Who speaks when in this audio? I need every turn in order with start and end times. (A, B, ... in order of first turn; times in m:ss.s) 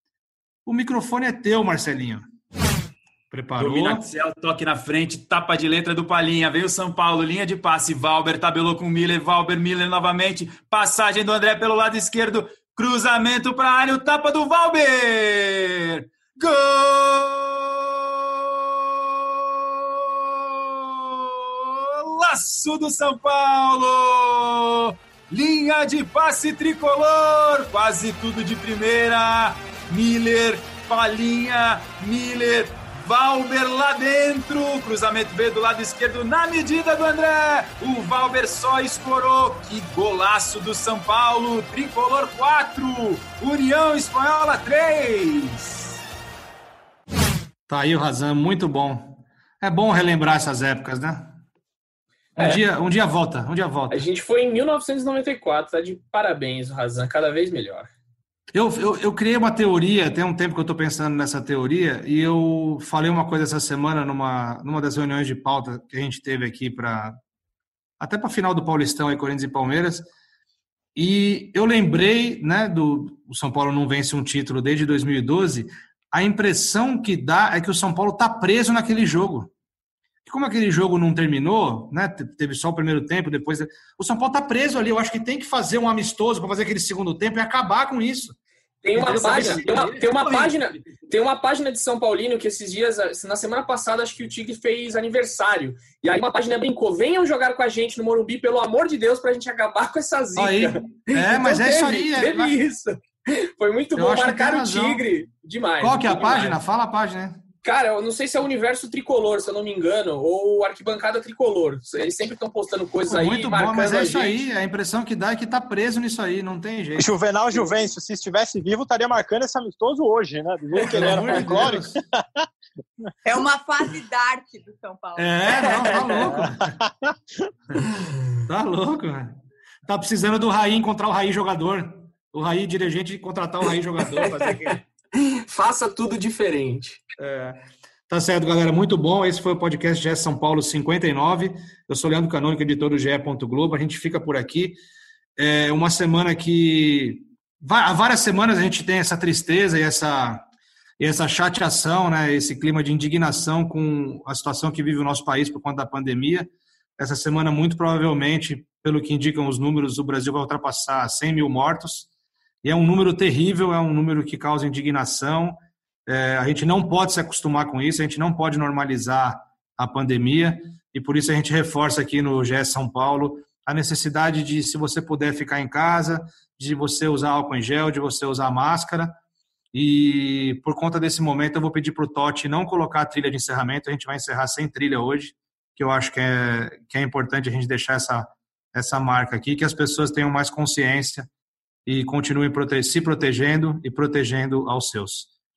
0:00.7-0:02.2 A
0:03.3-0:04.1 A
0:03.6-0:18.7 B
0:19.3-0:46.0 B
0:47.7-0:51.4 A
0:52.4-0:54.0 A
0:53.9-0:57.9 C
0:58.5-1:07.2 A
1:08.0-1:10.1 A
1:11.0-1:19.5 A
1:20.3-1:28.4 A
1:28.8-1:46.6 C
1:29.0-1:30.6 A
1:40.4-1:42.6 A
1:44.0-1:45.0 A
1:45.8-1:47.4 A
1:47.6-1:54.4 C
1:53.1-1:57.1 A
1:57.0-2:02.4 D
2:00.8-2:02.0 A
2:03.2-2:05.9 E
2:05.2-2:06.8 A
2:08.5-2:14.8 A
2:14.1-2:17.0 C
2:17.2-2:24.8 A
2:25.4-2:30.5 A
2:31.0-2:42.1 A
2:42.6-2:59.2 A
2:59.7-3:11.3 A
3:11.9-3:15.3 A